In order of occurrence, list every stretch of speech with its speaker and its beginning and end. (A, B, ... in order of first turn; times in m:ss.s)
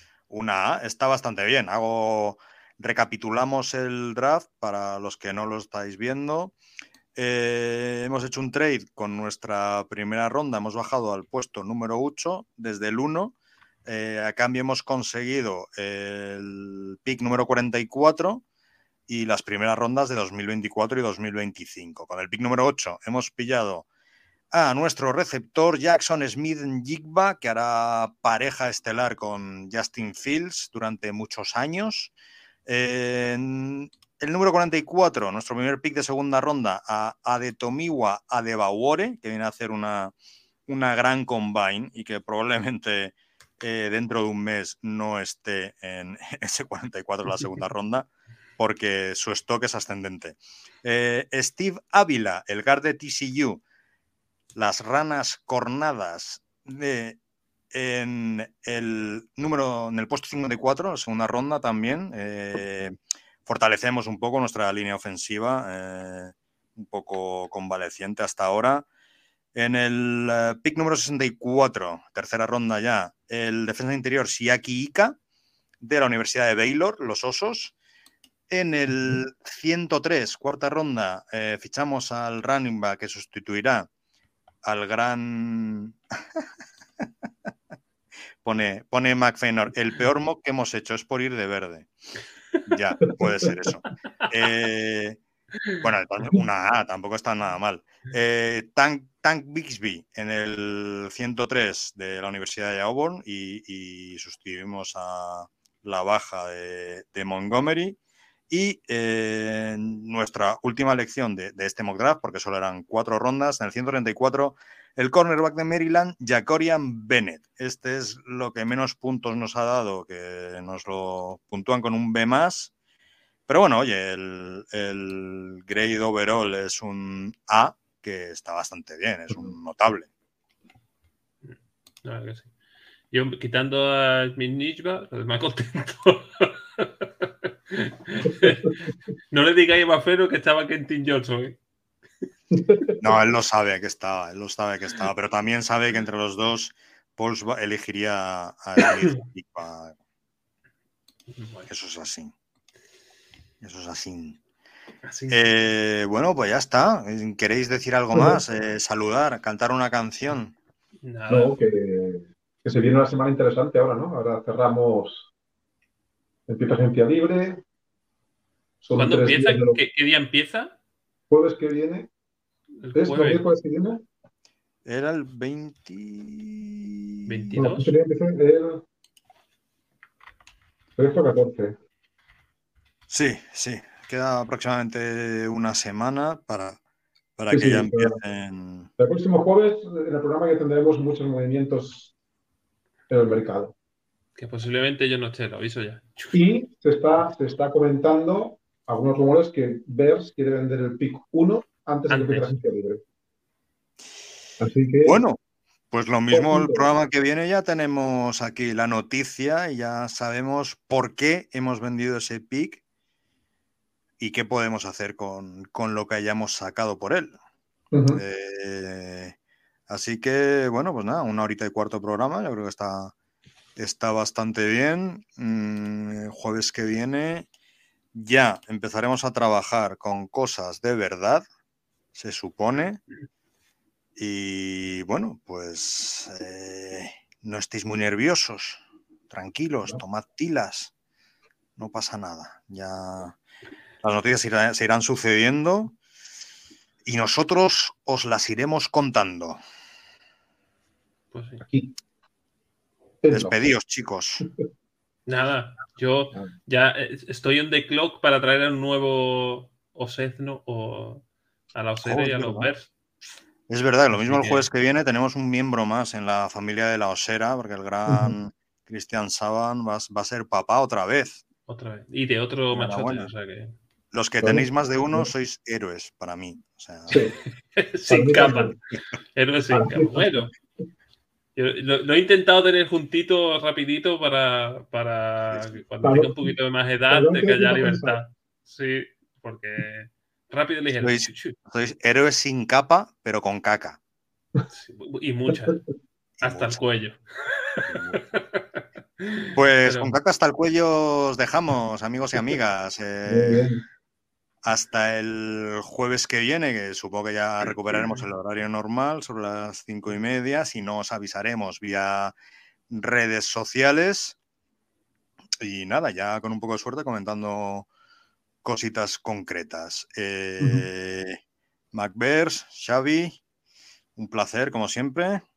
0:00.3-0:06.5 A
0:07.1-0:13.3 A
0:13.8-0:18.4 A
0:19.1-0:23.8 A
0:24.5-0:32.1 A
0:32.6-0:40.1 A
0:40.7-0:53.6 A
0:54.5-0:57.2 A
0:57.7-1:02.9 A
1:03.4-1:08.8 A
1:09.5-1:15.2 A
1:15.8-1:17.7 A
1:18.5-1:23.9 A
1:24.6-1:26.0 A
1:28.4-1:31.9 A
1:32.7-1:35.2 A
1:35.8-1:48.0 A
1:48.5-2:02.7 A
2:03.5-2:10.1 A
2:11.4-2:12.5 B
2:13.1-2:18.7 B
2:19.3-2:21.6 B
2:22.5-2:22.9 C
2:23.0-2:29.9 A
2:28.8-2:29.1 B
2:31.3-2:31.7 B
2:31.7-2:32.3 A
2:33.6-2:34.4 A
2:35.0-2:35.5 B
2:35.3-2:40.5 A
2:38.1-2:38.4 C
2:41.0-2:41.6 B
2:41.3-2:45.3 C
2:46.5-2:47.6 C
2:48.8-2:49.8 C
2:48.9-2:50.8 B
2:51.3-2:52.1 C
2:52.8-2:53.4 B
2:52.9-2:54.0 C
2:54.8-2:57.3 A
2:57.2-2:57.9 B
2:57.6-2:58.8 C
3:01.0-3:01.8 C
3:03.1-3:06.8 A
3:07.4-3:08.9 A
3:07.5-3:08.2 C
3:09.0-3:12.1 C
3:13.1-3:13.7 C
3:14.4-3:16.4 B
3:16.3-3:23.0 C
3:22.1-3:22.5 B
3:24.6-3:25.2 C
3:25.0-3:25.4 A
3:25.9-3:32.8 A
3:26.3-3:26.8 C
3:34.2-3:37.4 A
3:37.9-3:38.2 C
3:38.1-3:39.3 A
3:39.9-3:43.1 A
3:43.8-3:47.4 A
3:48.1-3:51.4 A
3:52.1-3:53.0 A
3:54.2-4:00.9 A
4:01.8-4:03.4 A
4:04.0-4:05.9 A
4:07.0-4:09.6 A
4:11.3-4:11.6 B
4:11.6-4:11.9 C
4:13.2-4:13.6 C
4:13.3-4:14.4 A
4:15.3-4:22.9 B
4:22.1-4:22.6 A
4:23.7-4:31.4 A
4:24.1-4:24.7 B
4:28.1-4:28.3 C
4:31.7-4:33.7 B
4:32.7-4:33.3 A
4:34.1-4:37.2 A
4:34.4-4:35.3 C
4:37.1-4:37.3 C
4:37.7-4:38.8 B
4:38.1-4:38.8 C
4:39.3-4:40.5 B
4:39.7-4:40.4 C
4:41.6-4:51.6 B
4:46.0-4:46.5 C
4:47.1-4:48.2 C
4:51.0-4:54.0 A
4:54.7-4:55.8 B
4:56.4-5:00.2 B
4:56.4-4:56.8 A
4:57.8-4:58.2 A
4:59.5-5:03.7 A
5:03.3-5:03.8 C
5:04.6-5:12.3 A
5:12.9-5:14.4 A
5:15.6-5:17.9 A
5:18.6-5:21.4 A
5:21.9-5:23.4 A
5:24.2-5:25.4 A